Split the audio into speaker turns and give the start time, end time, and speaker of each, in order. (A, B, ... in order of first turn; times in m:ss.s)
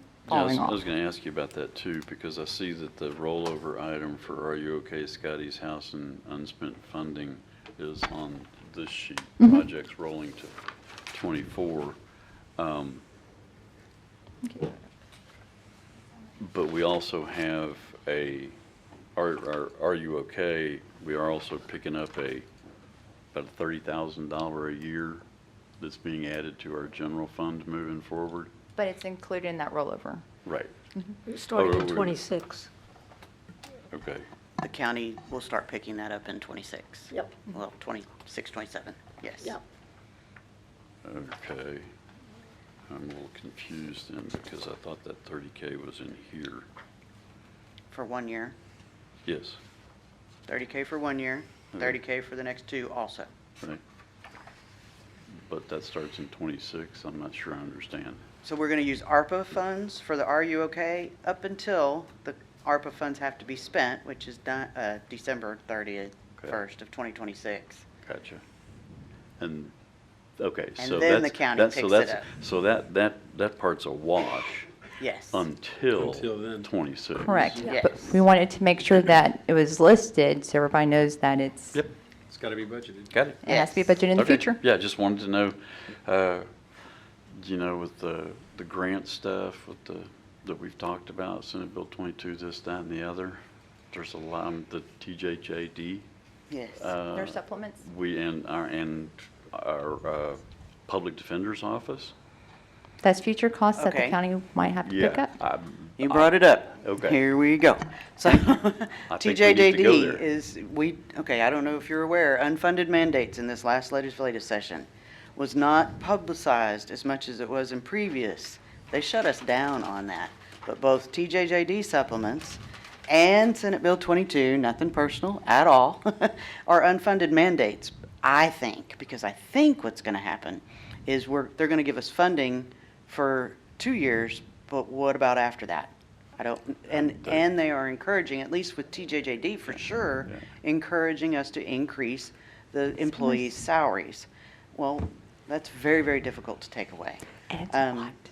0:00.3-0:10.6 A
0:11.1-0:12.0 A
0:12.6-0:13.0 A
0:14.4-0:14.7 B
0:16.4-0:18.6 A
0:19.2-0:22.5 A
0:23.3-0:25.2 A
0:25.8-0:28.5 A
0:28.8-0:30.2 B
0:30.4-0:30.7 A
0:31.2-0:32.7 B
0:31.5-0:32.2 A
0:33.9-0:34.2 A
0:34.6-0:39.6 C
0:41.0-0:41.9 A
0:42.9-0:46.7 A
0:47.9-0:48.5 C
0:49.2-0:49.6 A
0:50.5-0:53.3 C
0:55.3-0:58.2 A
0:58.4-1:07.8 C
1:08.0-1:08.4 A
1:09.4-1:09.7 A
1:10.4-1:14.7 A
1:10.8-1:12.3 C
1:15.0-1:15.5 C
1:15.3-1:17.7 A
1:16.0-1:16.7 D
1:17.2-1:17.7 D
1:17.6-1:18.2 C
1:17.6-1:21.7 B
1:22.3-1:23.2 D
1:23.1-1:23.4 A
1:23.4-1:24.6 B
1:23.4-1:23.9 C
1:24.2-1:26.5 A
1:27.3-1:36.1 A
1:36.5-1:37.0 C
1:36.8-1:42.1 A
1:37.1-1:37.8 B
1:43.0-1:45.3 B
1:43.7-1:44.2 C
1:44.8-1:47.2 A
1:46.0-2:28.1 C
1:49.1-1:50.2 A
2:19.8-2:20.4 A
2:27.5-2:28.0 B